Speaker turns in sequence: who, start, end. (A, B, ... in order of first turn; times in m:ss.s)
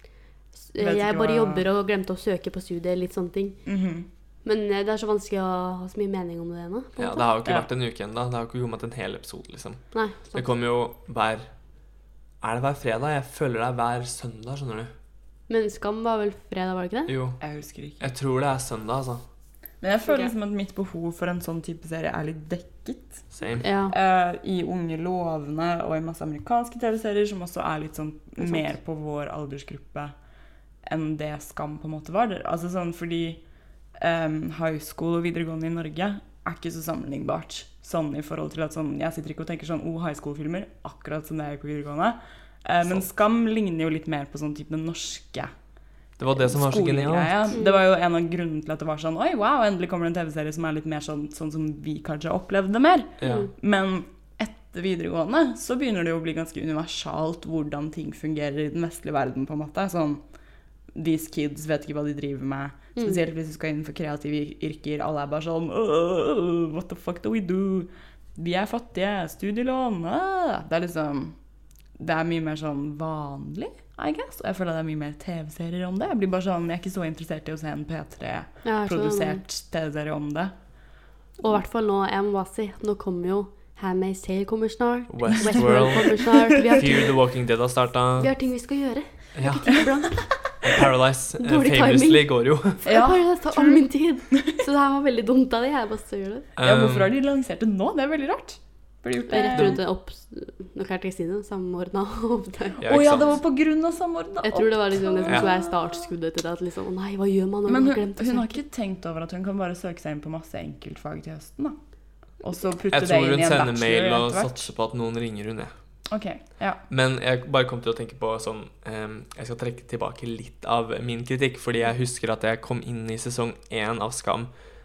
0:00.5-0:03.7 A
0:00.8-0:01.6 B
0:03.7-0:04.1 B
0:04.4-0:07.3 A
0:07.0-0:11.5 C
0:09.9-0:10.5 A
0:12.4-0:14.9 C
0:15.5-0:17.1 A
0:17.1-0:17.4 C
0:17.4-0:18.1 B
0:18.0-0:19.2 C
0:19.8-0:23.3 B
0:23.3-0:23.7 C
0:23.6-0:24.0 A
0:23.9-0:30.1 B
0:30.8-0:33.4 B
0:34.0-0:45.5 B
0:46.2-0:47.5 C
0:46.3-1:00.2 B
0:47.5-0:47.8 A
0:53.2-0:53.5 C
0:53.2-0:53.5 A
1:00.9-1:11.4 B
1:12.0-1:20.5 B
1:18.6-1:19.4 A
1:21.4-1:27.2 A
1:25.1-1:28.3 C
1:28.2-1:30.9 A
1:29.4-1:29.8 C
1:30.6-1:32.9 C
1:31.4-1:36.5 A
1:32.8-1:34.5 B
1:36.6-1:37.1 C
1:36.6-1:39.8 B
1:39.3-1:42.8 A
1:39.5-1:39.8 C
1:42.8-1:43.3 C
1:42.8-1:46.1 B
1:44.4-1:48.6 A
1:47.7-1:51.8 B
1:52.4-1:54.7 B
1:52.9-1:55.7 C
1:56.1-1:56.8 B
1:56.9-2:04.5 C